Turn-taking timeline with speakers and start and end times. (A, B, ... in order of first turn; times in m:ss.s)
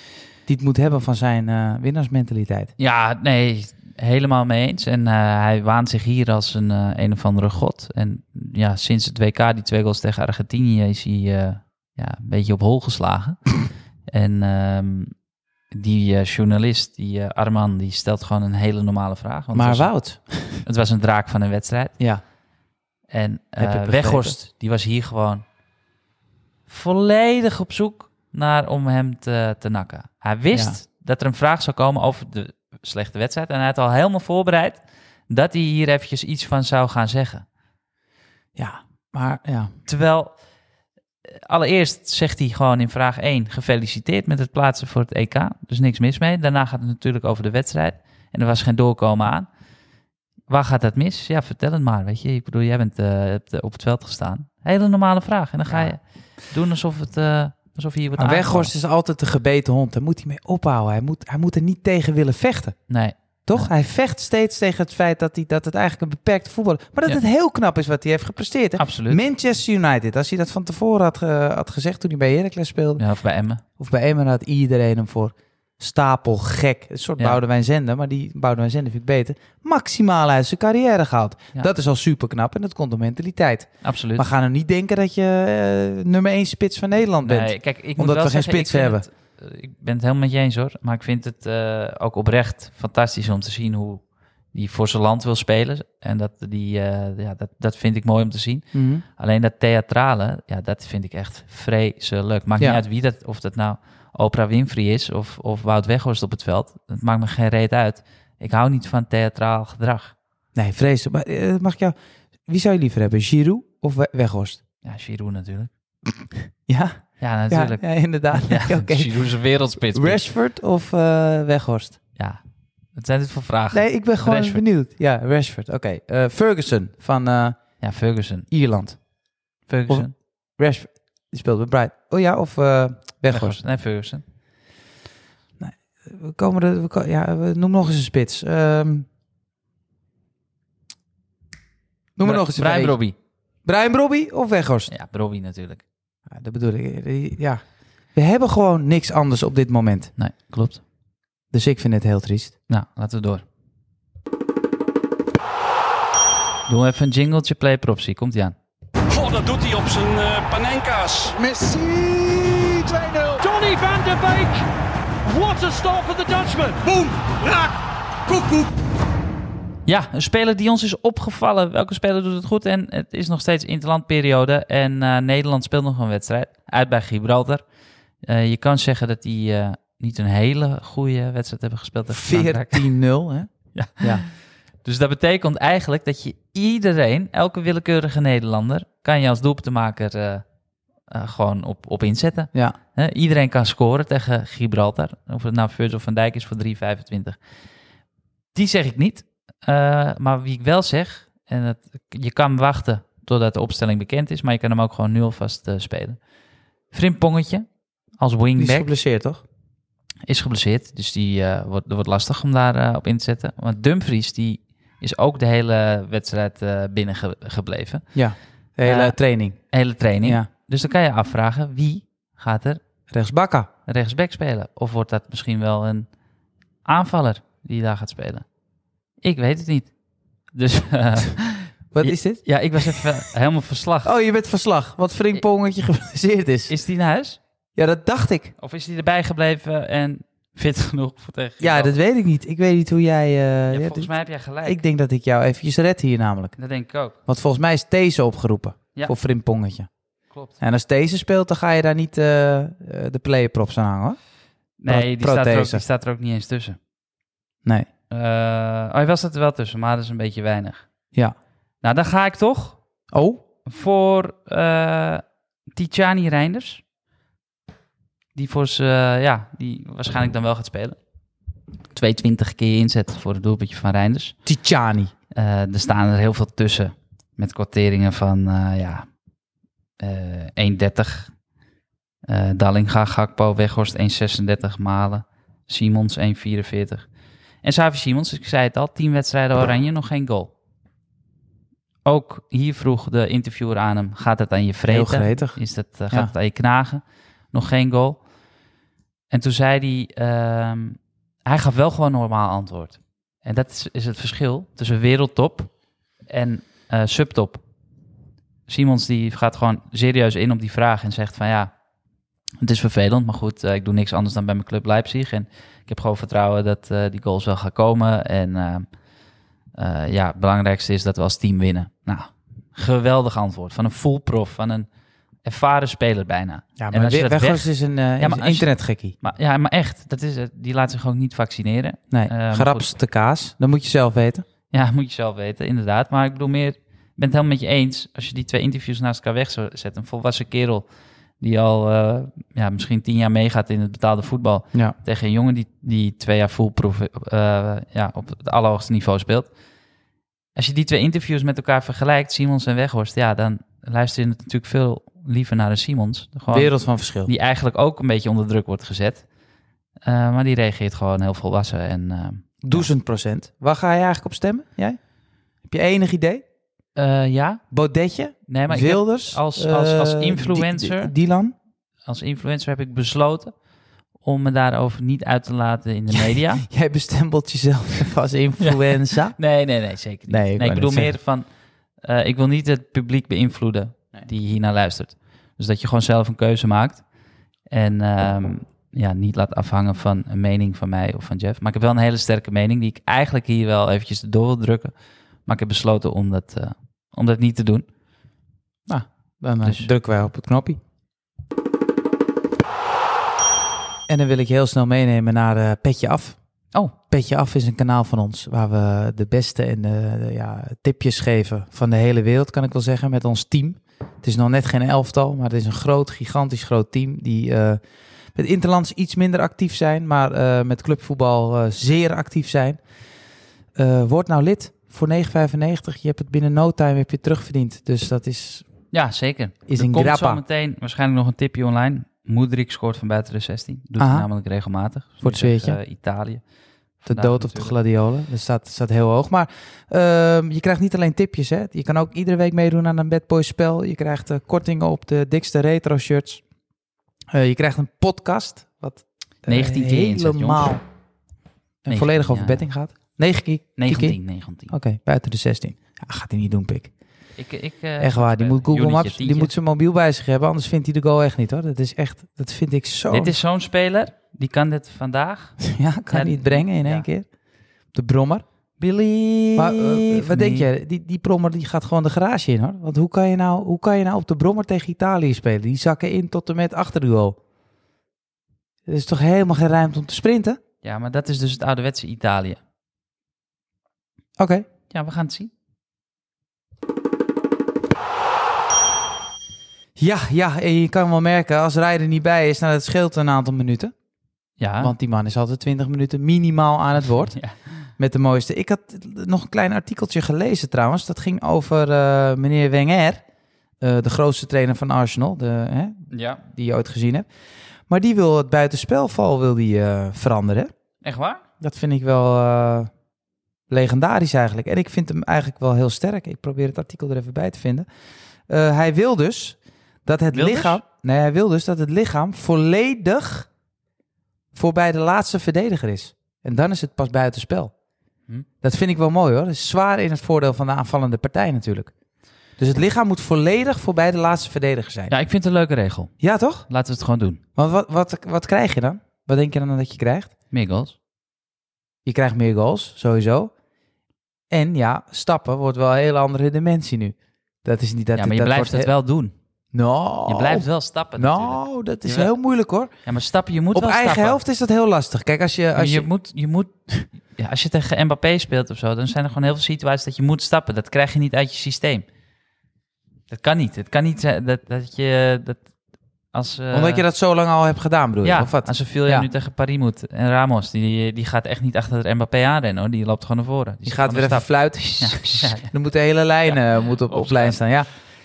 0:00.5-0:02.7 A
0:02.8-0:13.5 B
0:14.1-0:15.1 B
0:15.7-0:19.9 B
0:19.5-0:20.6 A
0:20.6-0:21.9 B
0:23.1-0:25.4 B
0:23.6-0:24.4 A
0:26.7-0:37.4 B
0:30.5-0:30.8 A
0:38.6-0:39.7 A
0:39.9-0:40.3 B
0:41.3-0:49.5 B
0:50.5-0:58.7 B
0:55.7-0:55.9 A
0:58.2-1:02.9 A
1:02.9-1:03.7 B
1:03.4-1:13.0 A
1:08.8-1:09.2 B
1:13.0-1:13.6 B
1:13.8-1:29.0 A
1:23.8-1:24.2 B
1:27.2-1:38.6 B
1:38.7-1:39.0 A
1:39.2-1:50.1 B
1:50.5-1:51.9 A
1:52.4-1:54.6 A
1:54.8-1:55.7 B
1:56.6-1:59.2 A
1:57.2-2:00.2 B
1:59.8-2:02.0 A
2:02.9-2:04.6 B
2:03.7-2:07.8 A
2:07.8-2:08.5 B
2:08.5-2:09.0 A
2:09.7-2:10.1 B
2:09.9-2:13.6 A
2:13.3-2:14.2 B
2:15.6-2:19.1 A
2:22.2-2:23.0 A
2:22.2-2:23.1 B
2:23.6-2:24.9 A
2:24.9-2:25.8 B
2:26.3-2:27.6 A
2:28.1-2:30.1 A
2:30.2-2:30.8 B
2:31.5-2:32.5 A
2:32.7-2:33.4 B
2:36.7-2:38.5 B
2:39.1-2:44.6 C
2:45.2-2:47.7 C
2:48.3-2:48.7 C
2:49.8-2:57.6 B
2:58.2-3:02.9 B
3:02.1-3:04.2 A
3:03.7-3:04.3 B
3:04.8-3:10.4 B
3:11.1-3:17.4 B
3:18.5-3:26.2 B
3:26.9-3:27.6 B
3:28.2-3:28.9 B
3:28.6-3:29.4 A
3:30.2-3:38.0 B
3:38.1-3:40.5 A
3:38.8-3:39.2 B
3:39.7-3:42.8 B
3:43.1-3:43.7 A
3:43.9-3:46.1 B
3:46.8-3:48.4 B
3:49.2-3:49.9 B
3:50.5-3:54.1 B
3:51.9-3:53.1 A
3:54.0-3:56.7 A
3:56.7-3:57.4 B
3:57.8-3:58.5 A
3:58.6-4:02.0 B
4:01.6-4:04.1 A
4:03.7-4:04.8 B
4:04.6-4:06.6 A
4:06.6-4:07.2 B
4:07.2-4:09.9 A
4:10.3-4:10.6 B
4:10.6-4:14.2 A
4:14.8-4:16.8 B
4:14.9-4:15.8 A
4:18.1-4:20.8 B
4:21.8-4:22.8 B
4:23.1-4:23.4 A
4:23.6-4:25.2 B
4:25.7-4:26.8 B
4:28.3-4:31.0 B
4:31.9-4:34.4 B
4:34.4-4:35.1 A
4:35.3-4:39.1 B
4:40.0-4:41.3 B
4:42.2-4:47.0 B
4:47.6-4:50.5 B
4:52.0-4:58.2 B
4:54.9-4:56.3 A
4:59.3-5:05.7 B
5:06.3-5:07.6 B
5:08.7-5:11.7 B
5:12.6-5:18.9 B
5:19.8-5:24.9 B
5:25.4-5:32.9 B
5:26.8-5:29.1 A
5:32.1-5:34.4 A
5:34.7-5:40.8 B
5:41.4-5:49.5 B
5:50.5-5:59.2 B
5:56.5-5:57.3 A
6:00.0-6:02.9 B
6:02.6-6:05.0 A
6:05.6-6:06.4 A
6:07.0-6:07.6 B
6:07.7-6:11.5 A
6:08.5-6:11.1 B
6:12.0-6:13.5 B
6:14.2-6:16.6 B
6:16.1-6:19.4 A
6:18.6-6:21.5 B
6:20.3-6:21.1 A
6:22.0-6:27.0 B
6:27.7-6:34.9 B
6:35.4-6:37.8 B
6:38.9-6:40.8 A
6:39.6-6:39.9 B
6:44.1-6:46.4 A
6:47.0-6:57.8 A
6:58.3-7:02.8 A
7:03.7-7:08.7 A
7:08.9-7:16.4 B
7:09.7-7:10.4 A
7:14.0-7:14.3 A
7:15.2-7:15.8 A
7:17.0-7:17.7 B
7:17.0-7:26.4 A
7:27.3-7:30.8 A
7:29.4-7:30.7 B
7:31.8-7:36.9 A
7:31.9-7:32.6 B
7:33.8-7:34.7 B
7:37.4-7:39.5 B
7:38.0-7:43.4 A
7:43.1-7:45.6 B
7:45.6-7:47.3 A
7:46.1-7:47.0 B
7:47.9-7:48.4 A
7:48.8-7:50.7 B
7:49.6-7:57.4 A
7:58.9-8:00.6 A
8:00.8-8:02.6 B
8:04.4-8:04.7 A
8:04.9-8:05.5 B
8:10.0-8:13.9 A
8:14.6-8:14.9 B
8:14.8-8:17.4 A
8:18.0-8:23.2 A
8:23.8-8:27.3 A
8:26.1-8:26.4 B
8:27.9-8:30.7 A
8:31.0-8:31.4 B
8:31.6-8:32.9 A
8:33.7-8:37.9 A
8:38.5-8:43.5 A
8:40.3-8:40.8 B
8:44.5-8:47.7 A
8:48.6-8:51.9 A
8:52.6-8:55.1 A
8:55.1-8:56.1 B
8:56.2-8:56.6 A
8:56.7-8:57.4 B
8:57.6-9:00.3 A
9:00.5-9:01.0 B
9:02.0-9:03.5 A
9:04.5-9:08.9 A
9:08.2-9:09.3 B
9:09.7-9:12.9 A
9:10.3-9:12.3 B
9:13.0-9:14.4 B
9:13.7-9:16.1 A
9:15.8-9:16.7 B
9:17.2-9:22.0 B
9:23.3-9:25.6 B
9:26.3-9:27.0 B
9:26.7-9:29.3 A
9:28.2-9:34.5 B
9:33.8-9:37.9 A
9:35.0-9:35.7 B
9:37.1-9:37.6 B